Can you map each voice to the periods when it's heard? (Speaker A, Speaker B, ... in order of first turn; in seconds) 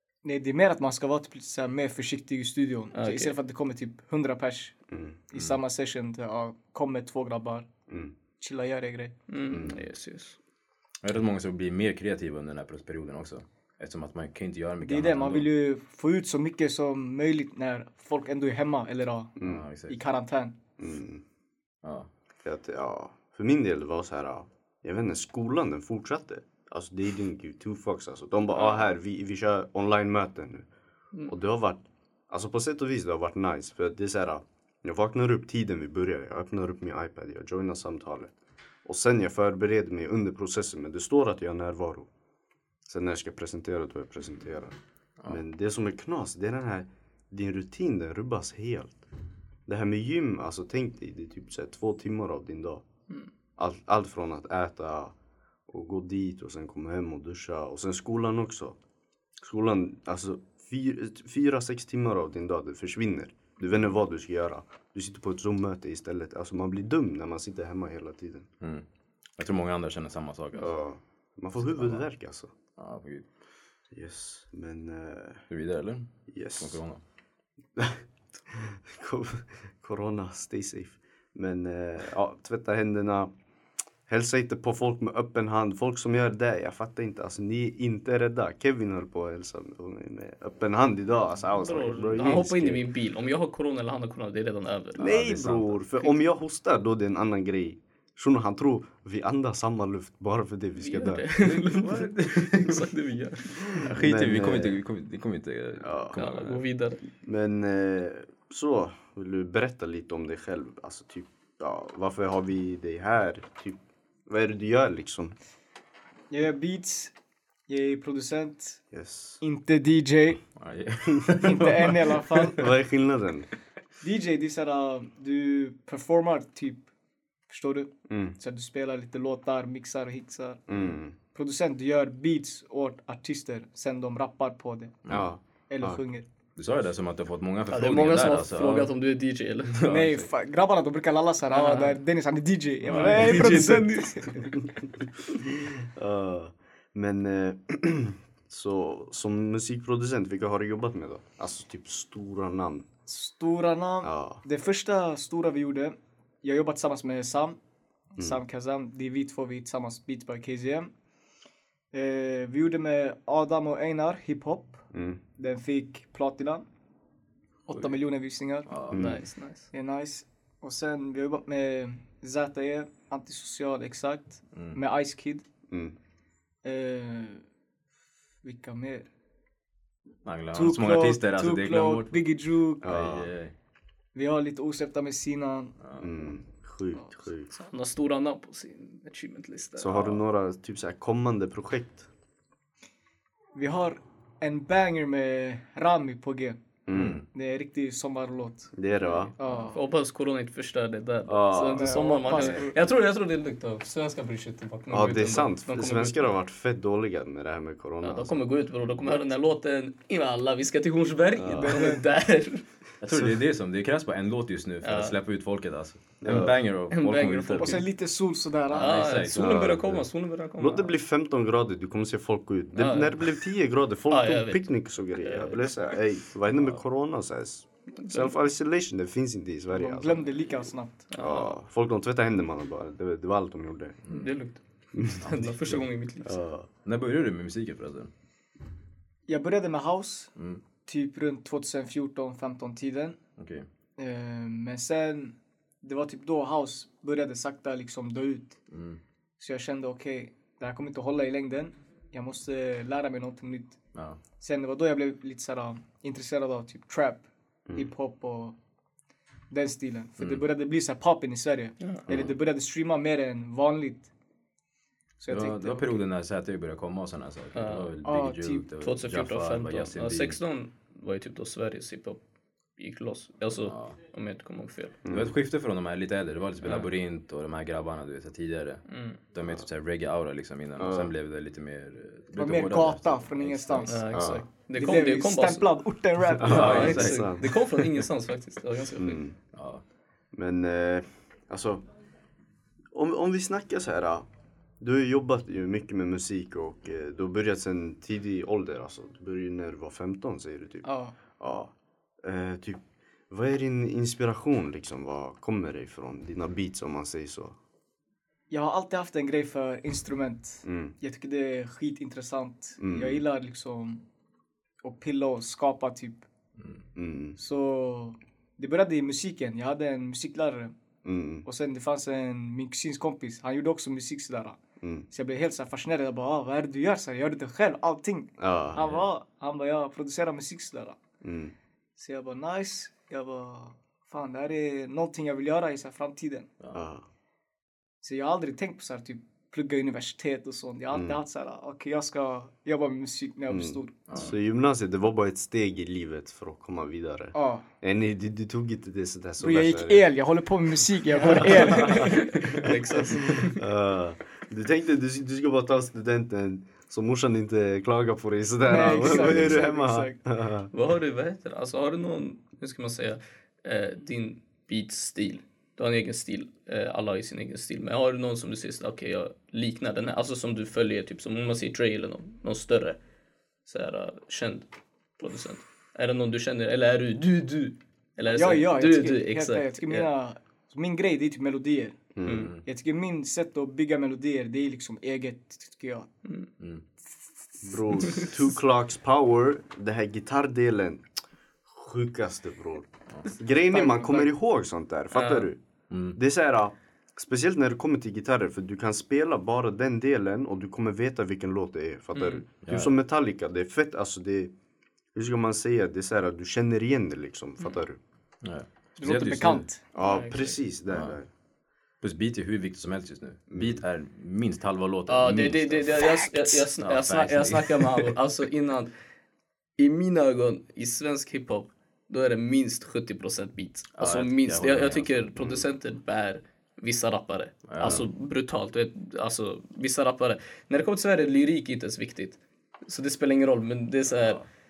Speaker A: 0.2-7.7, 8.4-9.1, 14.8-19.4, 19.9-20.6, 116.3-117.1, 117.7-118.8, 119.4-120.4, 121.3-122.6, 124.0-126.9, 127.5-130.7, 131.3-135.0, 135.7-136.2, 139.8-144.5, 153.1-157.6, 158.2-160.9, 161.9-164.9, 165.4-166.7, 167.7-168.7, 169.7-175.4, 176.6-177.4, 178.4-179.1, 180.5-182.9, 184.2-185.7, 193.6-196.6, 197.3-198.7, 199.4-199.8, 201.7-202.8, 211.6-212.0, 217.6-219.1, 229.7-231.1, 239.3-240.3, 240.9-243.2, 244.0-248.6, 249.4-253.8, 254.4-258.6, 259.5-264.1, 265.2-266.0, 268.0-268.7, 282.4-284.0, 284.7-287.0, 300.8-301.1, 308.5-314.1, 314.8-316.2, 317.4-320.7, 321.4-324.6, 325.1-331.0, 332.0-336.5, 338.0-344.0, 347.3-347.7, 349.4-352.3, 358.7-360.2, 378.3-382.1, 382.6-386.1, 393.7-394.3, 409.0-409.8
Speaker B: 2.9-3.4, 9.3-10.4, 28.6-28.9, 91.6-96.1, 100.8-103.8, 106.1-107.0, 137.7-139.8, 141.5-142.0, 142.9-144.3, 168.9-169.7, 187.6-190.1, 199.2-206.3, 208.0-212.6, 214.8-215.2, 216.9-217.9, 218.7-220.9, 222.8-223.4, 224.1-224.7, 225.2-225.8, 228.0-228.3, 231.1-231.6, 234.1-236.3, 267.5-267.9, 268.8-272.2, 272.8-275.0, 276.6-276.9, 278.9-279.2, 283.9-285.7, 286.5-289.2, 351.4-353.6, 358.8-359.4, 360.7-373.0, 373.7-374.7, 375.2-380.1, 382.2-382.5, 395.1-395.5, 402.1-402.4, 409.9-410.6, 415.1-418.9, 419.8-434.4
Speaker C: 4.9-5.2, 7.9-8.1, 9.5-9.8, 19.4-19.6, 20.8-21.2, 22.4-30.7, 31.3-38.3, 38.9-42.1, 42.9-44.8, 45.3-49.0, 49.7-52.8, 53.6-55.1, 55.7-58.8, 59.4-68.5, 70.5-72.5, 73.9-75.4, 76.3-76.8, 77.8-83.3, 84.1-92.9, 95.0-101.3, 103.7-104.8, 105.8-106.2, 107.2-115.4, 118.9-119.4, 122.5-123.5, 128.1-128.4, 130.7-131.2, 135.1-136.0, 145.0-152.9, 154.0-154.4, 164.9-165.2, 168.9-169.2, 175.7-176.0, 182.8-183.3, 186.0-187.5, 189.8-192.1, 196.9-197.2, 198.7-199.3, 201.3-202.6, 204.9-208.4, 211.4-211.9, 213.1-213.4, 216.2-216.6, 219.3-220.1, 220.6-234.0, 234.9-235.2, 236.2-236.7, 275.0-275.3, 280.8-281.1, 284.1-284.4, 286.4-287.7, 289.0-289.4, 290.3-291.8, 292.9-294.3, 294.8-307.6, 310.6-310.9, 312.8-313.2, 316.9-317.4, 321.0-321.5, 324.8-325.1, 328.4-328.9, 331.2-331.5, 336.7-337.1, 340.9-341.2, 343.5-350.1, 351.8-360.7, 382.1-382.5, 387.6-391.1, 391.7-395.6, 396.1-404.5, 405.1-408.0, 409.9-411.3, 413.5-413.8
Speaker D: 11.0-15.5, 19.4-20.0, 21.8-22.1, 69.4-70.7, 71.6-72.0, 72.8-73.3, 75.5-77.0, 95.0-95.7, 101.4-102.9, 103.7-106.6, 120.6-122.7, 135.1-135.3, 136.6-138.9, 139.7-140.3, 143.0-143.3, 168.7-169.1, 180.2-182.3, 182.8-183.5, 185.8-186.2, 196.9-197.3, 213.0-217.8, 218.7-219.7, 226.5-226.8, 235.2-235.9, 236.8-238.1, 240.4-240.6, 243.4-243.7, 248.7-249.0, 253.9-254.2, 260.2-260.4, 265.3-270.4, 273.6-273.9, 275.1-284.2, 286.4-287.5, 289.5-289.8, 328.8-329.0, 344.1-344.3, 382.3-382.6, 395.9-396.2, 402.6-402.9, 408.4-409.7, 410.9-411.2, 412.0-418.1, 424.0-425.6, 427.7-428.1, 434.2-434.4